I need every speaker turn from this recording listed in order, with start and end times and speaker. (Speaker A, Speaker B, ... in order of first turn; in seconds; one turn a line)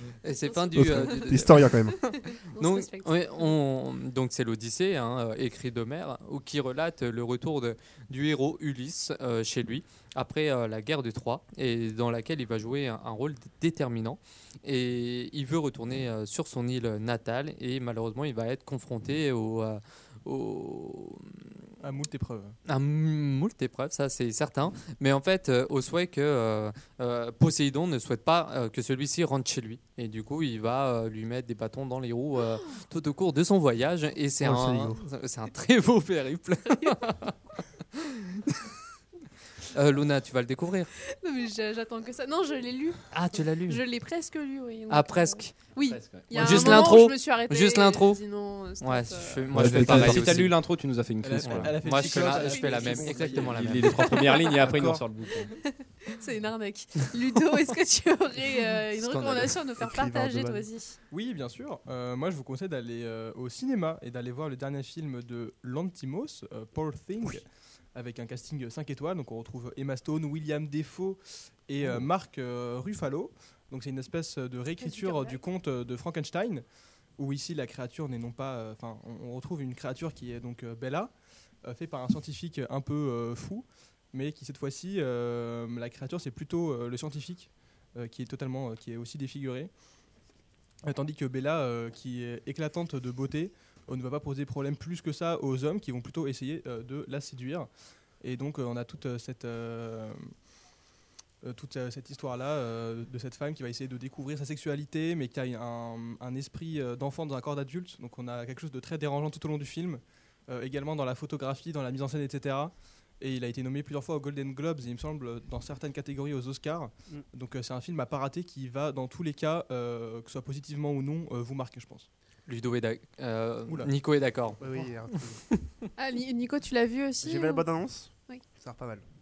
Speaker A: 0.2-21.6
Speaker B: 0.5-3.5
Speaker C: 0.8-2.1
Speaker D: 21.8-22.6
Speaker A: 22.6-37.6
Speaker C: 34.4-35.0
Speaker A: 39.7-40.9
Speaker B: 41.1-49.4
Speaker A: 43.1-44.0
Speaker A: 44.9-50.8
Speaker E: 45.9-47.1
Speaker E: 49.5-52.4
Speaker D: 49.7-50.3
Speaker D: 51.2-54.0
Speaker A: 51.4-54.3
Speaker B: 52.0-53.0
Speaker E: 53.0-55.5
Speaker B: 54.1-54.5
Speaker C: 54.5-55.0
Speaker B: 55.8-61.0
Speaker A: 59.0-59.6
Speaker C: 59.8-60.6
Speaker D: 61.1-89.8
Speaker B: 74.8-75.4
Speaker D: 90.8-100.4
Speaker D: 101.4-122.1
Speaker A: 122.5-125.6
Speaker D: 123.7-123.9
Speaker C: 124.6-125.5
Speaker B: 126.0-128.4
Speaker C: 127.2-129.0